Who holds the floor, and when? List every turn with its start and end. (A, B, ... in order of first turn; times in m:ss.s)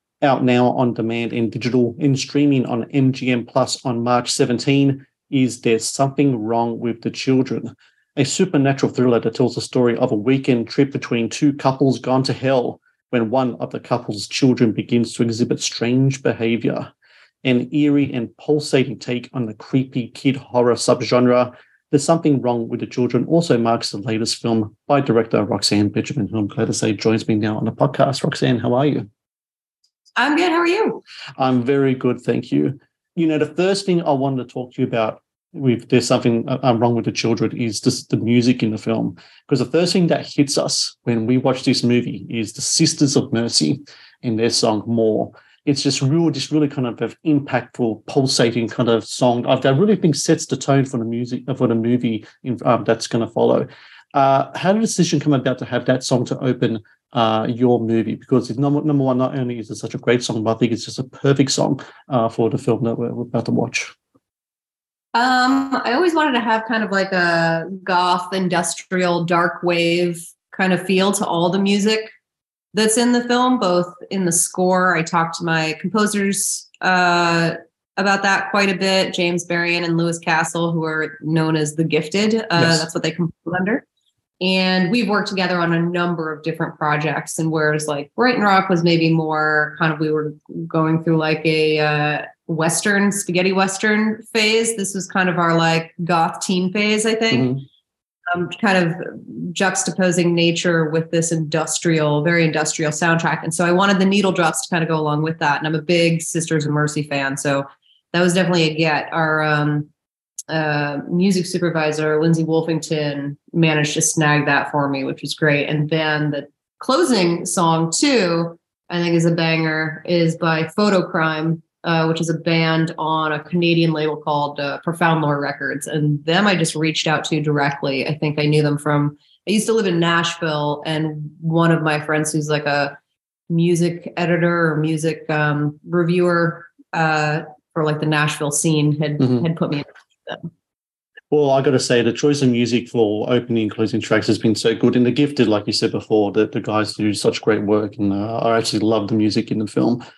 0:00.2-0:16.9 A
0:17.4-0:29.1 A
0:30.2-0:31.0 B
0:31.4-1:03.9 A
1:05.1-1:12.1 B
1:12.7-1:23.8 B
1:22.6-1:22.9 A
1:24.4-1:37.6 B
1:37.3-1:37.6 A
1:38.3-1:49.9 B
1:50.5-2:13.0 B
2:13.5-2:20.5 B
2:21.3-2:30.0 A